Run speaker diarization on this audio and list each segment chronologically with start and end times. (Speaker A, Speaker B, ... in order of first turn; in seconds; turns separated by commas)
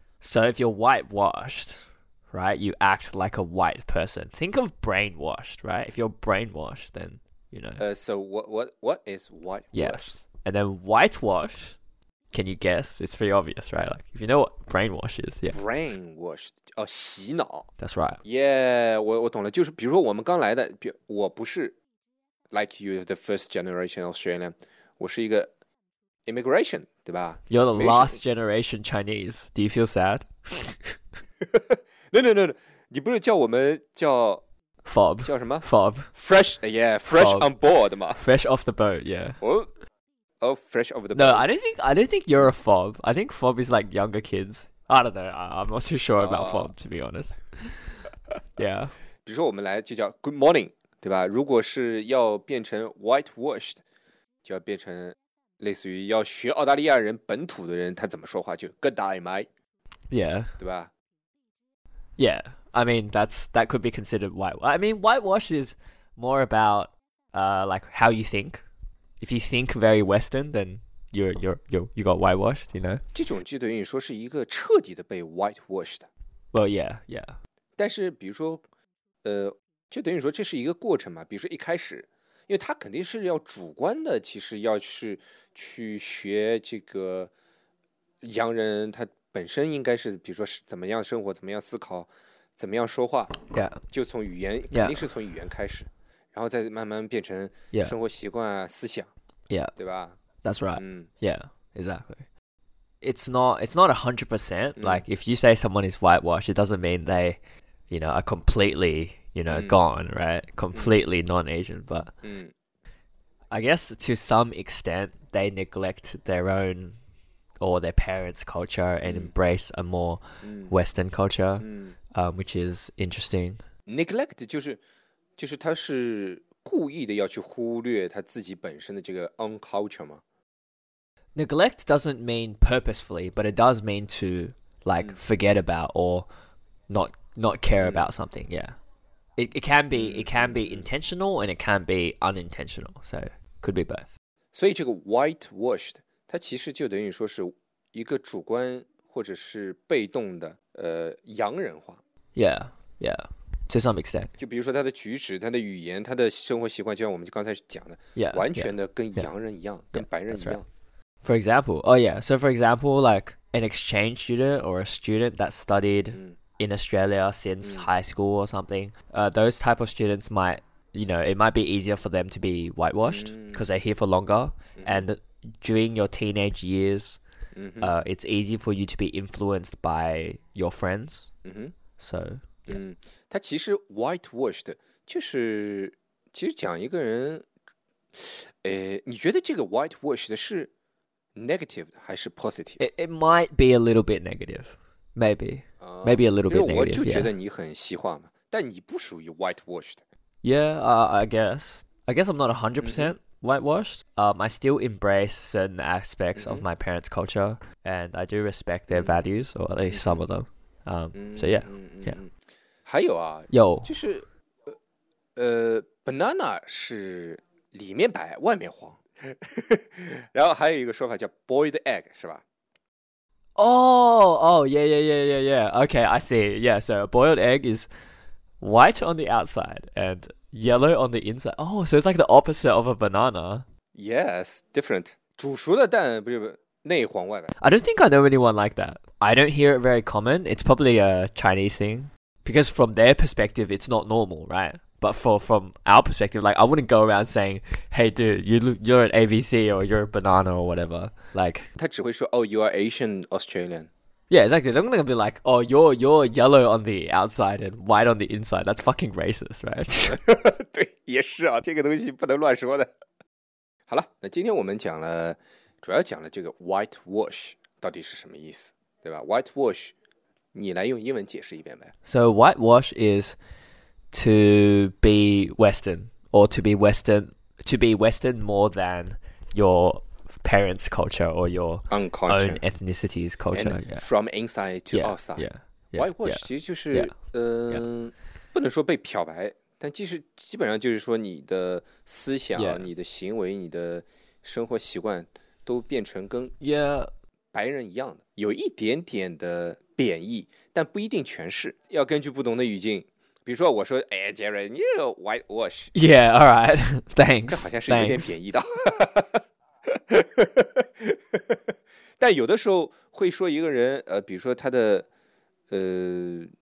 Speaker A: 0.2-7.8, Speaker B: 7.8-10.1, Speaker A: 9.7-11.8, Speaker A: 12.3-15.6, Speaker B: 15.5-17.7, Speaker A: 17.8-18.2, Speaker B: 18.2-21.7, Speaker B: 22.5-25.5, Speaker B: 26.2-28.2, Speaker A: 27.5-31.0, Speaker B: 31.4-34.4, Speaker A: 34.8-36.1, Speaker B: 35.2-38.2, Speaker A: 37.1-37.5, Speaker A: 38.1-39.4, Speaker B: 39.4-39.7, Speaker B: 40.4-41.5, Speaker A: 41.1-47.8, Speaker B: 46.2-46.7, Speaker A: 48.6-48.9, Speaker B: 49.2-53.8, Speaker B: 54.4-59.5, Speaker A: 60.1-60.5, Speaker B: 60.6-60.9, Speaker A: 62.2-68.6, Speaker A: 69.2-73.0, Speaker B: 73.1-76.1, Speaker A: 76.5-77.3, Speaker B: 77.8-78.6, Speaker B: 79.2-87.3, Speaker B: 88.2-99.1, Speaker A: 93.5-93.8, Speaker A: 94.7-95.1, Speaker A: 99.5-99.7, Speaker B: 99.8-100.2, Speaker A: 100.4-102.2, Speaker B: 100.7-101.1, Speaker A: 103.0-112.1, Speaker B: 104.8-105.0, Speaker B: 109.5-109.8, Speaker B: 112.2-112.5, Speaker A: 113.5-117.0, Speaker A: 117.6-123.6, Speaker B: 119.0-119.3, Speaker B: 120.4-120.8, Speaker B: 121.6-121.9, Speaker B: 123.9-124.8, Speaker B: 125.4-130.2, Speaker A: 131.3-136.3, Speaker A: 136.9-138.8, Speaker B: 137.8-138.1, Speaker A: 139.4-144.1, Speaker B: 139.9-140.9, Speaker B: 144.5-152.0, Speaker A: 152.3-154.3, Speaker B: 154.4-160.7, Speaker A: 158.2-159.3, Speaker A: 159.9-160.6, Speaker A: 161.2-177.2, Speaker B: 167.6-167.9, Speaker B: 173.1-173.7, Speaker B: 174.8-175.1, Speaker B: 177.5-177.9, Speaker A: 177.8-181.3, Speaker B: 181.4-181.7, Speaker A: 182.0-182.8, Speaker B: 182.7-187.5, Speaker B: 188.1-190.7, Speaker B: 191.3-192.8, Speaker A: 192.8-197.3, Speaker B: 195.8-200.0, Speaker A: 200.4-212.2, Speaker B: 202.8-203.1, Speaker B: 206.3-206.7, Speaker B: 208.9-209.2, Speaker B: 209.9-210.2, Speaker B: 211.1-212.3, Speaker B: 212.8-214.7, Speaker A: 213.5-213.9, Speaker B: 215.3-222.4, Speaker A: 223.6-227.9, Speaker A: 228.6-233.6, Speaker B: 233.9-237.5, Speaker A: 237.6-251.7, Speaker B: 251.8-253.9, Speaker A: 254.3-260.2, Speaker B: 260.0-262.9, Speaker B: 263.9-269.9, Speaker B: 270.5-271.9, Speaker A: 272.0-273.4, Speaker A: 274.1-284.1, Speaker B: 281.9-282.6, Speaker B: 283.5-296.5, Speaker A: 284.9-287.1, Speaker A: 292.5-292.9, Speaker A: 296.6-297.1, Speaker B: 297.5-305.9, Speaker A: 305.9-308.4, Speaker B: 307.5-311.6, Speaker B: 312.2-315.1, Speaker B: 315.7-316.5